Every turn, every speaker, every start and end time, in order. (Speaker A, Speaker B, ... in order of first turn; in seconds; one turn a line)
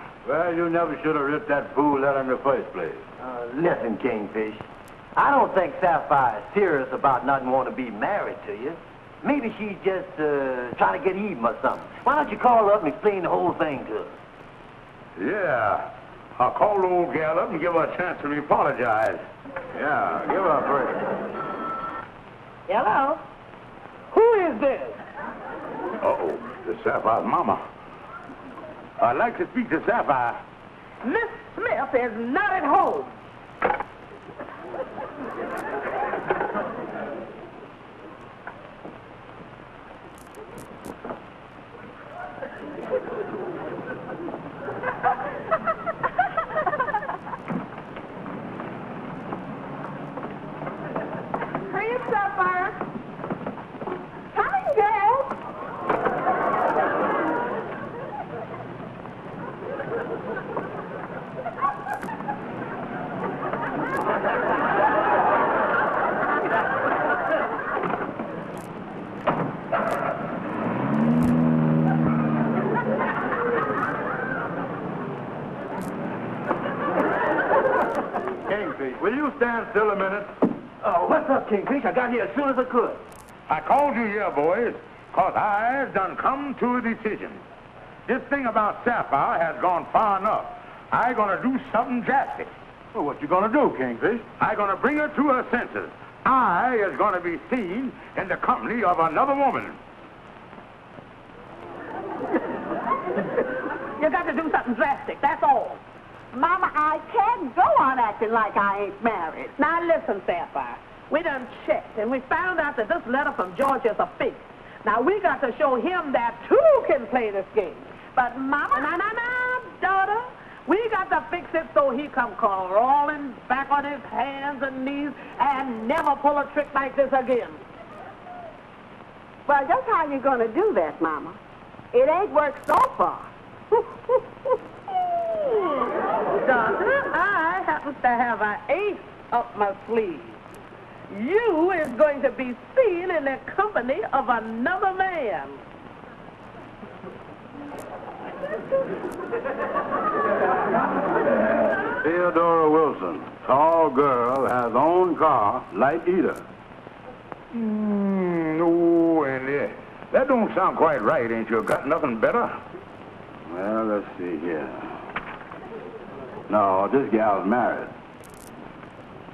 Speaker A: 0.2-3.0
Speaker B: 3.2-14.2
Speaker C: 15.2-19.2
Speaker A: 19.7-21.1
Speaker D: 22.7-23.2
Speaker D: 24.1-25.0
Speaker C: 26.0-27.6
Speaker C: 29.0-30.4
Speaker D: 31.0-33.1
Speaker E: 51.7-52.8
Speaker E: 54.3-55.4
Speaker A: 78.5-80.3
Speaker B: 80.8-83.0
Speaker C: 83.5-87.4
Speaker C: 88.1-92.5
Speaker A: 92.9-94.2
Speaker C: 94.4-99.8
Speaker D: 104.0-105.8
Speaker E: 106.3-109.5
Speaker D: 109.5-118.1
Speaker E: 118.1-118.9
Speaker D: 118.7-127.6
Speaker E: 129.5-131.4
Speaker E: 131.9-134.2
Speaker D: 135.3-140.4
Speaker D: 141.1-145.6
Speaker A: 152.0-156.4
Speaker C: 157.5-162.6
Speaker A: 163.5-165.0
Speaker A: 166.5-167.9